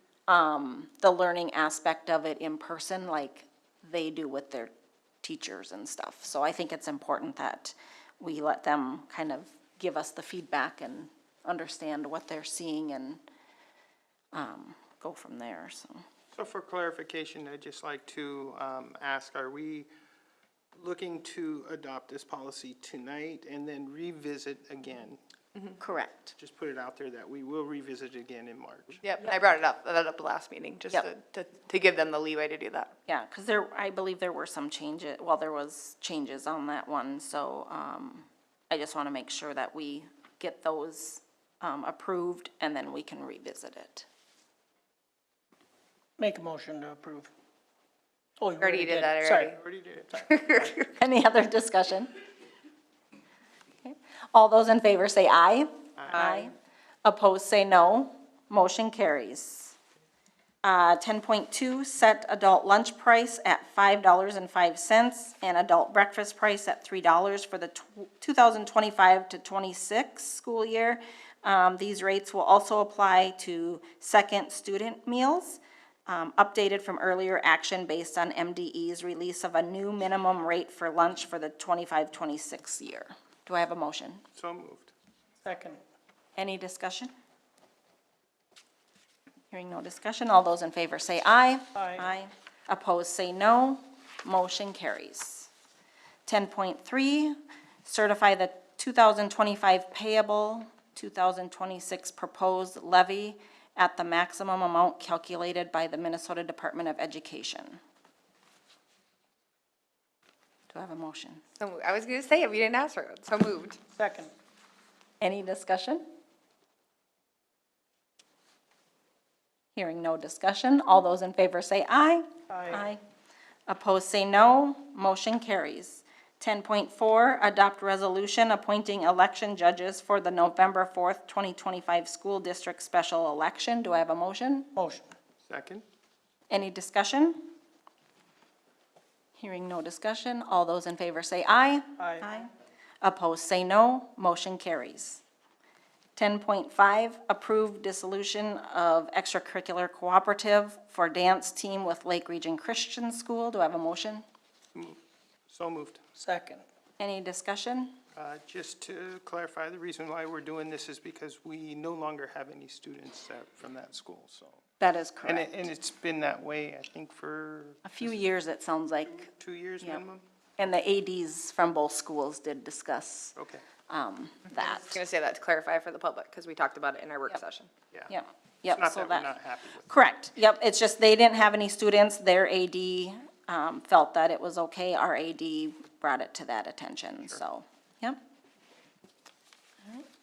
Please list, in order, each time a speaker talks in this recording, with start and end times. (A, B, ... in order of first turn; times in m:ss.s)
0:00.3-0:04.7 A
0:05.2-0:13.2 A
0:14.3-0:16.0 A
0:16.3-0:19.9 B
0:20.8-0:25.2 B
0:25.8-0:26.3 A
0:26.4-0:29.0 B
0:29.0-0:32.9 C
0:33.1-0:44.1 A
0:46.2-0:47.3 D
0:48.4-0:49.5 D
0:48.6-0:49.5 C
0:49.5-0:50.2 B
0:50.2-0:50.8 C
0:50.9-0:52.1 A
0:53.8-0:56.5 A
0:57.0-0:59.7 A
1:00.6-1:24.2 A
1:24.3-1:24.9 B
1:25.4-1:25.8 D
1:26.4-1:27.1 A
1:29.5-1:35.5 A
1:31.8-1:32.0 D
1:36.2-1:47.8 A
1:50.7-1:51.4 A
1:51.6-1:53.8 C
1:54.0-1:54.3 D
1:55.2-1:56.0 A
1:59.7-2:03.0 A
2:03.7-2:14.7 A
2:14.8-2:15.1 D
2:15.4-2:15.8 B
2:16.5-2:17.5 A
2:19.4-2:22.5 A
2:22.0-2:22.2 D
2:23.0-2:25.2 A
2:26.2-2:34.2 A
2:35.5-2:36.0 B
2:36.2-2:36.6 D
2:37.0-2:37.9 A
2:38.1-2:44.6 B
2:44.8-2:45.6 A
2:45.2-2:47.9 B
2:47.8-2:49.3 A
2:49.3-2:50.2 B
2:50.6-2:53.4 A
2:53.4-2:53.6 B
2:53.9-2:55.0 A
2:54.5-2:57.7 C
2:58.1-2:59.3 A
2:58.6-2:59.9 B
2:59.9-3:08.2 A